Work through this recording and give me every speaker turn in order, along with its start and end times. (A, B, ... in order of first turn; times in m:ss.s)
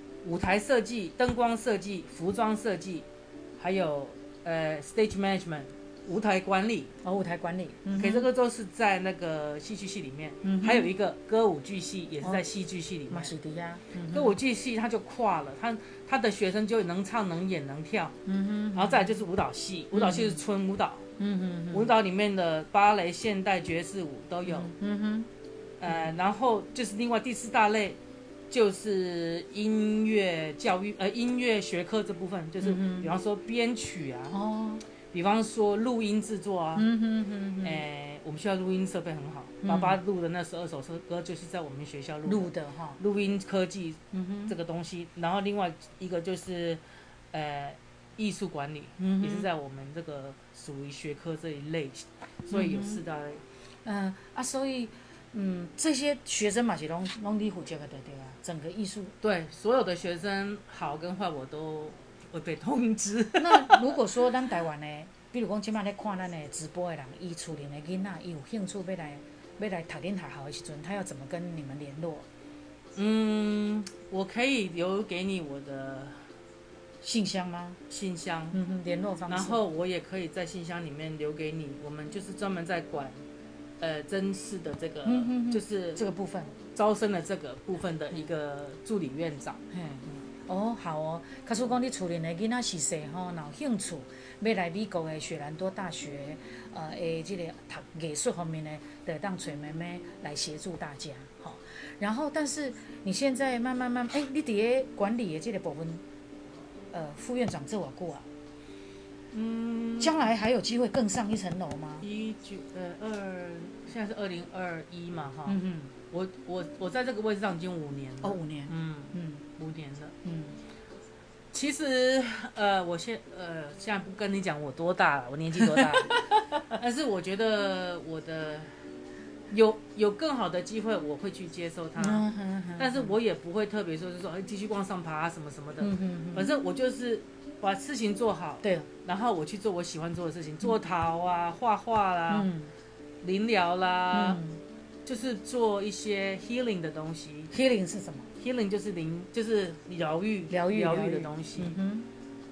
0:00.2-0:03.1 A
0:03.6-0:06.9 A
0:07.0-0:08.3 B
0:08.0-0:13.3 A
0:10.4-0:10.9 B
0:13.1-0:14.4 B
0:14.1-0:18.2 A
0:18.3-0:19.2 B
0:18.7-0:21.0 A
0:19.9-0:20.4 B
0:21.2-0:21.9 B
0:21.7-0:24.7 A
0:24.5-0:25.3 B
0:25.8-0:28.0 A
0:28.5-0:34.4 A
0:32.6-0:33.1 B
0:34.3-0:34.8 B
0:35.1-0:36.9 A
0:36.8-0:37.8 B
0:37.6-0:53.4 A
0:39.6-0:40.0 B
0:42.3-0:43.0 B
0:44.1-0:44.6 B
0:49.0-0:49.5 B
0:52.5-0:53.0 B
0:53.8-0:59.1 B
0:59.2-1:04.0 A
1:03.4-1:12.3 B
1:13.0-1:16.3 A
1:17.0-1:17.8 B
1:17.9-1:18.6 A
1:18.5-1:19.6 B
1:19.3-1:23.2 A
1:23.8-1:26.0 A
1:25.1-1:26.6 B
1:26.8-1:29.6 A
1:29.7-1:46.0 B
1:46.9-1:48.3 B
1:49.3-1:50.2 A
1:50.0-1:52.1 B
1:52.0-1:55.6 A
1:55.5-1:55.9 B
1:56.1-2:00.2 A
1:58.2-1:59.4 B
2:00.2-2:00.6 B
2:01.5-2:08.8 A
2:05.8-2:06.2 B
2:09.5-2:12.2 A
2:12.0-2:13.1 B
2:12.8-2:22.5 A
2:15.8-2:16.5 B
2:18.6-2:18.9 B
2:22.3-2:22.7 B
2:23.2-2:24.4 A
2:24.1-2:24.6 B
2:25.0-2:27.5 A
2:27.5-2:28.3 B
2:28.4-2:31.8 A
2:30.5-2:32.1 B